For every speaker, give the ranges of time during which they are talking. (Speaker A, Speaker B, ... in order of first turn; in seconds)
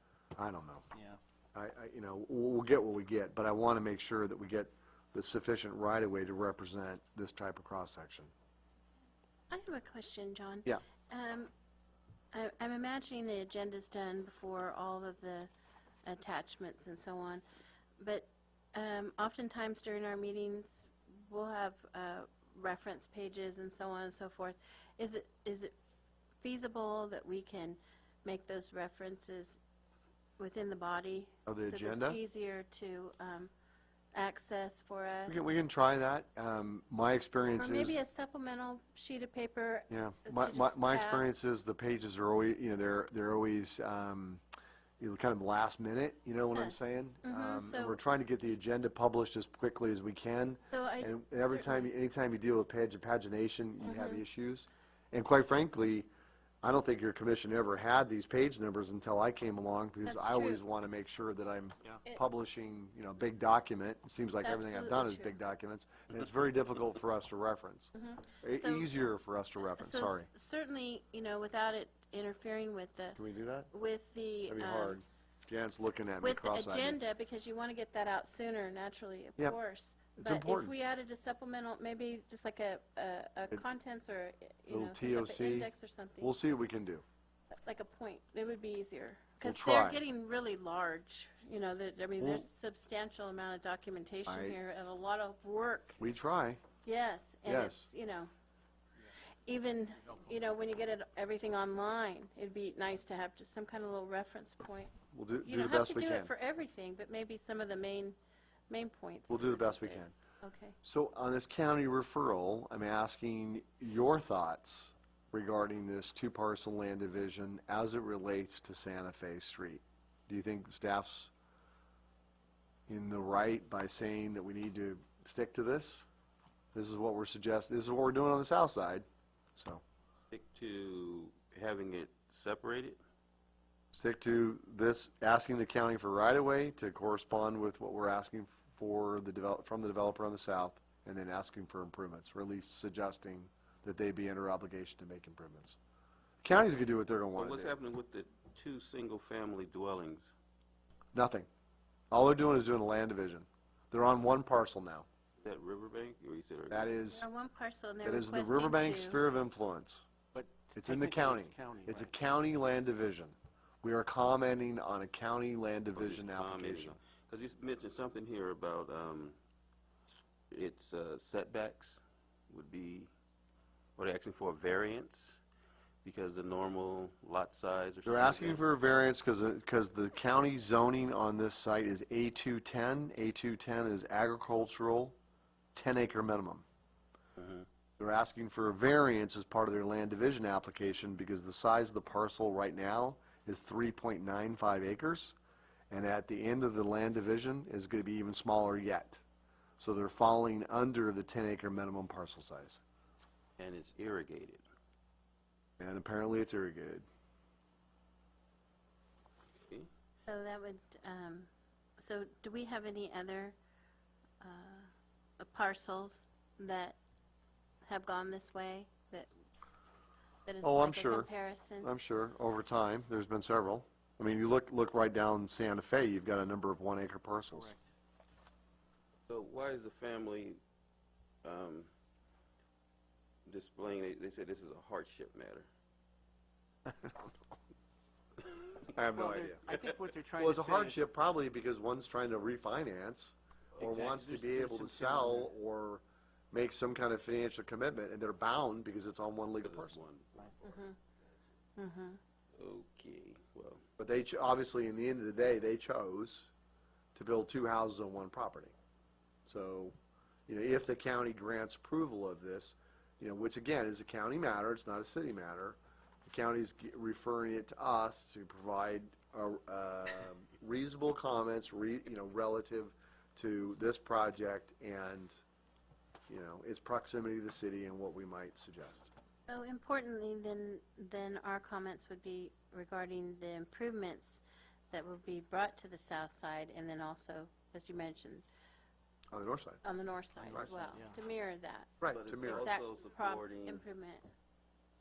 Speaker A: 0.4-0.8, 1.6-8.3, 31.5-32.2, 35.3-38.0, 39.9-44.4, 45.0-56.1, 56.6-70.3, 73.2-73.7, 74.5-77.0, 80.2-80.7, 84.7-87.0, 89.4-90.0, 92.2-92.5, 94.3-94.6, 96.0-96.6, 97.5-97.9, 105.1-106.3, 109.3-110.1, 110.8-121.3, 122.9-126.1, 126.7-129.1, 129.6-129.8, 133.9-145.8, 146.4-147.7, 151.1-151.5, 152.1-155.1, 156.7-157.3, 158.0-160.1, 160.8-167.0, 178.1-185.2, 185.8-186.7, 188.0-195.4, 195.9-199.2, 199.8-202.8, 205.8-207.1, 220.6-221.3, 221.8-227.7, 238.9-239.7, 240.4-250.0, 254.0-256.5, 257.1-258.8, 259.5-259.9, 260.5-275.4, 276.3-279.1, 289.3-289.8, 292.0-292.7
Speaker B: 9.5-11.5, 12.3-15.5, 16.0-17.4, 18.0-25.8, 26.4-29.6, 30.4-33.5, 34.1-35.5, 37.6-41.3, 46.5-48.0, 50.7-51.9, 53.8-54.2, 60.0-60.6, 64.4-65.3, 67.9-69.1, 69.6-73.2, 73.7-75.0, 76.2-86.3, 87.6-96.0, 96.8-98.3, 99.5-108.2, 108.7-110.8, 157.1-159.2, 210.3-213.6, 214.4-214.9, 215.4-217.0, 217.8-219.3, 220.5-221.9, 250.6-251.0, 251.8-252.2, 279.5-288.5, 289.8-294.3
Speaker C: 130.3-133.0, 147.3-150.3, 155.4-156.9, 166.0-169.4, 170.5-173.1, 174.0-175.4, 176.0-178.7, 187.4-187.7, 203.6-204.7, 209.6-209.9, 229.3-230.6, 231.4-231.9, 233.5-235.7, 249.6-250.6, 252.6-253.8, 292.1-293.8
Speaker D: 160.3-162.1, 239.1-241.1, 243.8-245.5, 290.4-291.2